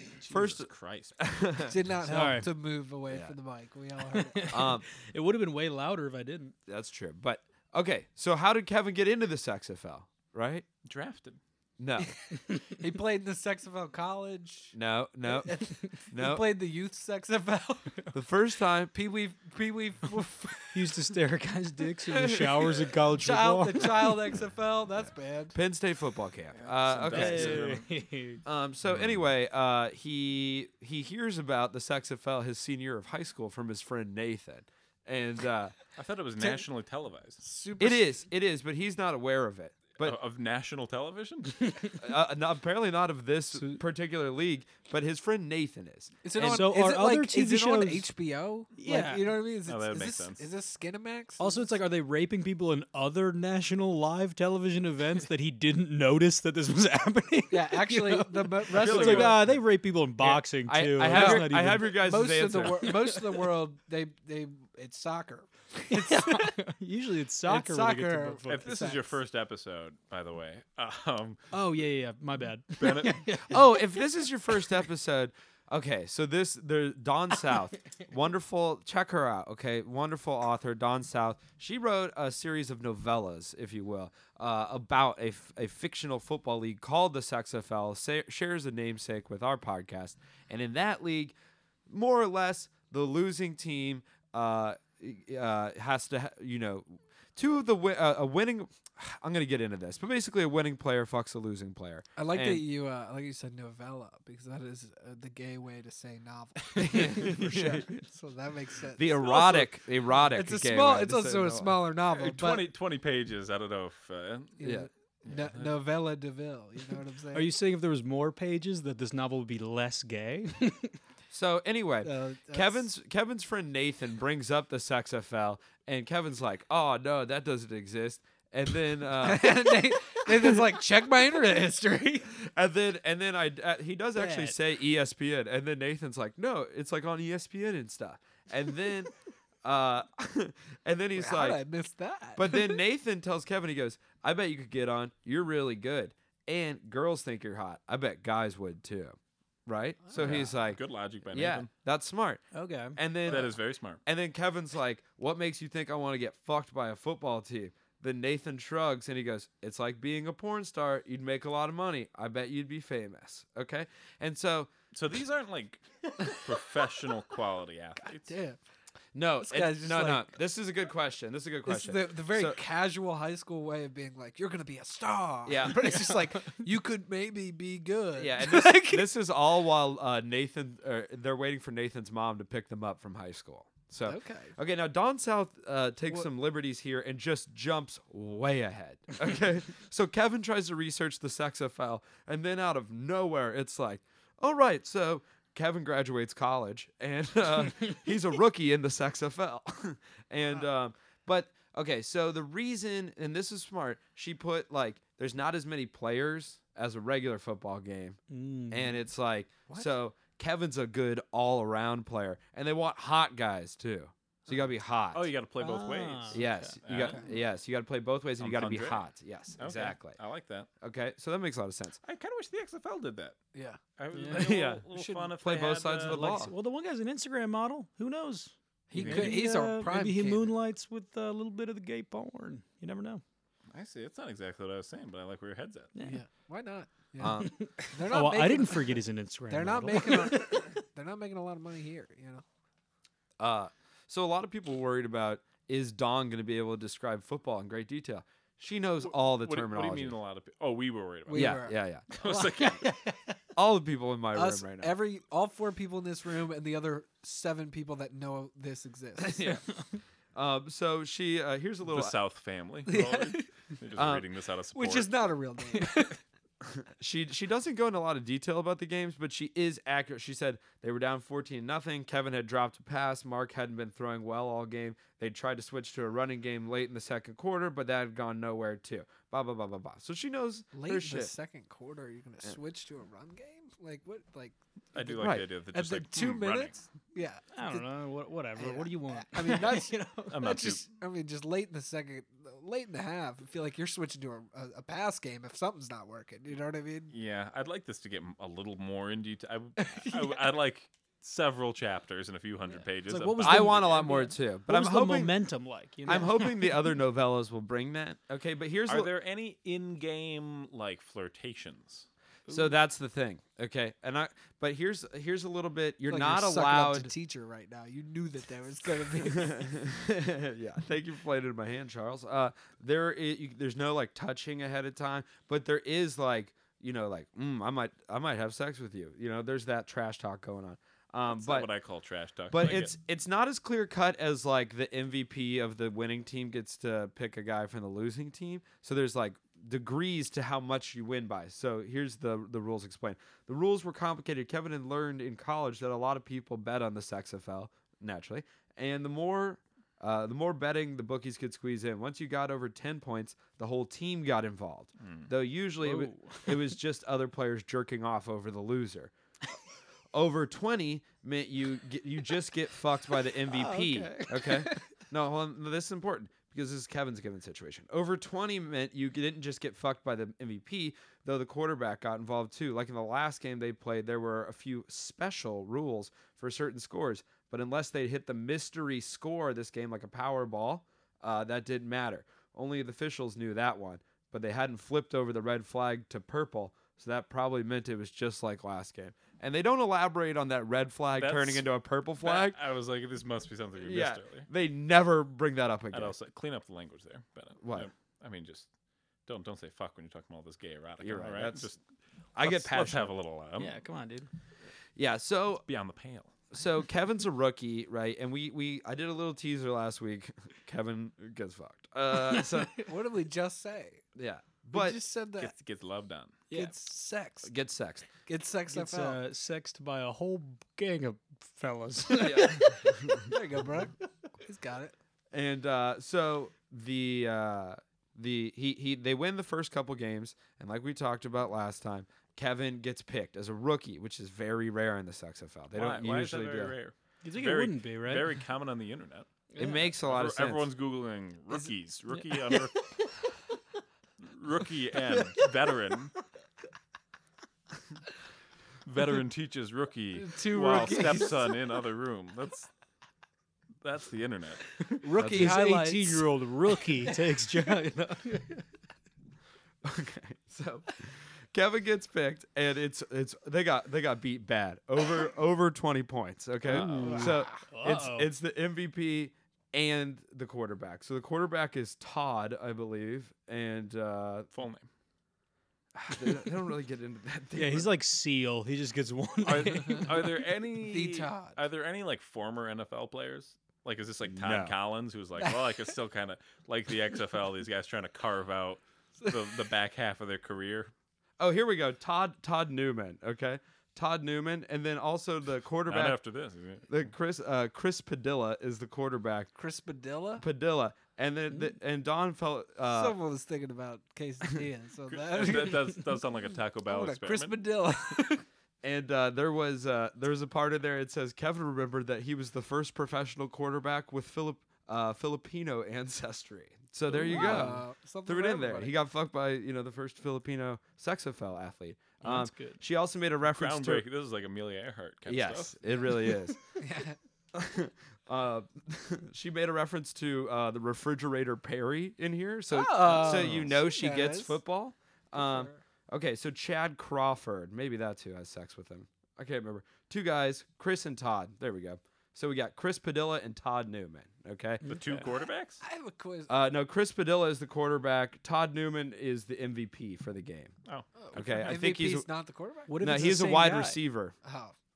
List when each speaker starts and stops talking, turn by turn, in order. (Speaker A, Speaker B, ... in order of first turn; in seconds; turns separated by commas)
Speaker A: 0.2-1.2, Speaker B: 0.3-1.8, Speaker C: 1.7-4.6, Speaker D: 2.0-2.5, Speaker D: 4.1-6.5, Speaker B: 4.5-4.9, Speaker B: 6.7-10.7, Speaker A: 10.8-11.4, Speaker B: 11.8-12.1, Speaker C: 12.4-14.8, Speaker B: 14.7-16.6, Speaker C: 15.3-18.1, Speaker B: 18.1-18.9, Speaker C: 18.9-21.0, Speaker D: 20.7-24.3, Speaker C: 23.2-25.6, Speaker B: 25.5-27.8, Speaker A: 26.6-27.9, Speaker D: 27.1-28.4, Speaker B: 28.4-35.8, Speaker A: 28.9-29.2, Speaker A: 36.0-37.4, Speaker C: 36.4-36.6, Speaker C: 37.4-38.2, Speaker B: 37.8-40.2, Speaker A: 40.0-41.7, Speaker B: 42.0-46.1, Speaker D: 43.6-43.8, Speaker C: 46.2-51.8, Speaker D: 46.4-48.1, Speaker D: 48.8-49.4, Speaker A: 49.7-50.4, Speaker D: 51.4-62.0, Speaker C: 57.5-59.4, Speaker A: 58.7-59.6, Speaker B: 60.2-63.0, Speaker C: 61.1-66.6, Speaker D: 65.9-68.7, Speaker C: 67.5-69.2, Speaker A: 68.5-71.4, Speaker D: 71.5-74.7, Speaker A: 72.8-73.4, Speaker B: 73.5-91.3, Speaker B: 91.9-102.6, Speaker C: 102.2-109.8, Speaker B: 106.8-108.0, Speaker B: 109.0-111.8, Speaker C: 110.3-112.7, Speaker A: 112.1-114.6, Speaker C: 114.6-117.5, Speaker B: 114.6-114.9, Speaker A: 115.3-115.8, Speaker D: 117.3-121.0, Speaker B: 121.3-129.5, Speaker C: 122.0-122.9, Speaker C: 129.2-132.4, Speaker B: 132.5-139.1, Speaker D: 134.2-134.5, Speaker B: 139.6-141.6, Speaker C: 141.2-142.8, Speaker B: 142.4-152.4, Speaker C: 150.1-150.5, Speaker A: 150.2-151.7, Speaker D: 152.5-153.0, Speaker B: 152.9-164.7, Speaker A: 153.3-154.0, Speaker A: 164.9-168.3, Speaker C: 168.0-168.6, Speaker B: 169.2-172.6, Speaker C: 169.4-170.3, Speaker C: 171.7-179.1, Speaker B: 175.5-176.0, Speaker B: 178.2-208.2, Speaker C: 184.1-184.5, Speaker D: 208.3-209.1, Speaker B: 208.7-215.3, Speaker A: 215.1-217.3, Speaker D: 215.6-216.8, Speaker B: 216.3-220.2, Speaker A: 218.4-219.0, Speaker A: 219.6-220.7, Speaker B: 220.8-222.0, Speaker A: 222.0-223.4, Speaker C: 223.5-223.8, Speaker A: 224.0-226.3, Speaker D: 224.1-224.5, Speaker B: 224.3-224.9, Speaker C: 225.0-225.3, Speaker B: 225.4-226.5, Speaker D: 226.1-233.2, Speaker C: 228.9-230.5, Speaker A: 228.9-229.4, Speaker A: 233.7-235.9, Speaker D: 235.9-236.2, Speaker C: 236.0-242.4, Speaker B: 237.2-237.6, Speaker D: 237.4-240.7, Speaker B: 243.4-250.2, Speaker A: 249.0-252.8, Speaker C: 251.3-253.1, Speaker B: 251.3-252.1, Speaker B: 253.6-254.9, Speaker C: 254.3-259.6, Speaker B: 259.2-259.6, Speaker B: 260.3-262.2, Speaker A: 261.9-266.0, Speaker C: 262.9-263.5, Speaker B: 264.0-264.3, Speaker C: 264.7-266.2, Speaker B: 266.7-281.3, Speaker C: 280.7-287.9, Speaker A: 284.9-286.9, Speaker B: 285.2-285.5, Speaker D: 287.6-290.4, Speaker C: 288.6-297.1, Speaker A: 290.3-290.9, Speaker A: 297.1-304.2, Speaker C: 299.8-300.5, Speaker D: 303.1-306.9, Speaker B: 303.4-305.4, Speaker B: 306.1-309.1, Speaker A: 308.9-312.7, Speaker B: 312.5-317.1, Speaker C: 316.1-319.8, Speaker B: 319.3-331.7, Speaker A: 331.3-332.9, Speaker B: 332.5-359.1, Speaker A: 355.0-355.3, Speaker A: 355.9-356.2, Speaker B: 360.1-392.6, Speaker D: 363.5-364.8, Speaker A: 391.2-391.7, Speaker A: 392.2-394.5, Speaker B: 393.8-396.2, Speaker A: 395.9-398.7, Speaker B: 397.6-397.9, Speaker A: 399.3-401.8, Speaker B: 401.0-401.7, Speaker B: 402.4-403.1, Speaker A: 402.4-403.8, Speaker D: 403.6-404.3, Speaker B: 405.0-405.7, Speaker A: 405.7-406.5, Speaker B: 406.5-412.9, Speaker C: 412.8-414.0, Speaker B: 414.1-415.0, Speaker C: 414.7-415.5, Speaker A: 415.4-416.4, Speaker C: 416.5-417.5, Speaker B: 417.4-418.1, Speaker C: 418.3-419.2, Speaker D: 418.7-423.2, Speaker B: 422.2-423.3, Speaker C: 423.3-424.9, Speaker B: 425.3-436.8, Speaker A: 435.7-439.3, Speaker D: 437.2-438.4, Speaker D: 439.5-439.9, Speaker B: 439.6-440.7, Speaker A: 439.9-442.9, Speaker D: 442.1-442.7, Speaker A: 444.2-446.1, Speaker D: 445.1-445.5, Speaker A: 448.9-452.7, Speaker C: 450.2-451.5, Speaker A: 453.8-454.7, Speaker C: 455.0-456.3, Speaker B: 455.2-455.6, Speaker D: 455.3-458.7, Speaker B: 459.8-474.5, Speaker A: 466.6-467.3, Speaker D: 466.7-468.3, Speaker C: 467.0-467.6, Speaker A: 474.5-474.9, Speaker B: 476.0-477.9, Speaker D: 477.5-480.3, Speaker A: 479.4-490.9, Speaker C: 480.8-481.6, Speaker B: 484.3-484.7, Speaker C: 485.4-485.9, Speaker B: 491.4-496.2, Speaker A: 495.9-496.9, Speaker B: 496.9-499.5, Speaker C: 499.6-500.4, Speaker B: 500.4-503.2, Speaker C: 502.9-506.1, Speaker A: 505.1-507.6, Speaker C: 506.9-508.4, Speaker B: 508.8-524.0, Speaker A: 517.2-517.5, Speaker D: 517.2-517.8, Speaker C: 517.2-519.0, Speaker D: 522.2-522.8, Speaker A: 523.5-525.9, Speaker B: 525.3-526.6, Speaker C: 526.8-527.2, Speaker B: 527.5-544.9, Speaker C: 532.7-534.6, Speaker D: 533.2-533.6, Speaker A: 533.3-533.7, Speaker C: 535.3-535.8, Speaker D: 544.8-545.3, Speaker A: 544.8-545.8, Speaker C: 545.8-546.5, Speaker B: 546.5-550.7, Speaker A: 550.9-551.8, Speaker C: 551.2-553.1, Speaker B: 551.3-552.3, Speaker D: 552.9-554.0, Speaker B: 553.0-554.4, Speaker C: 554.4-554.8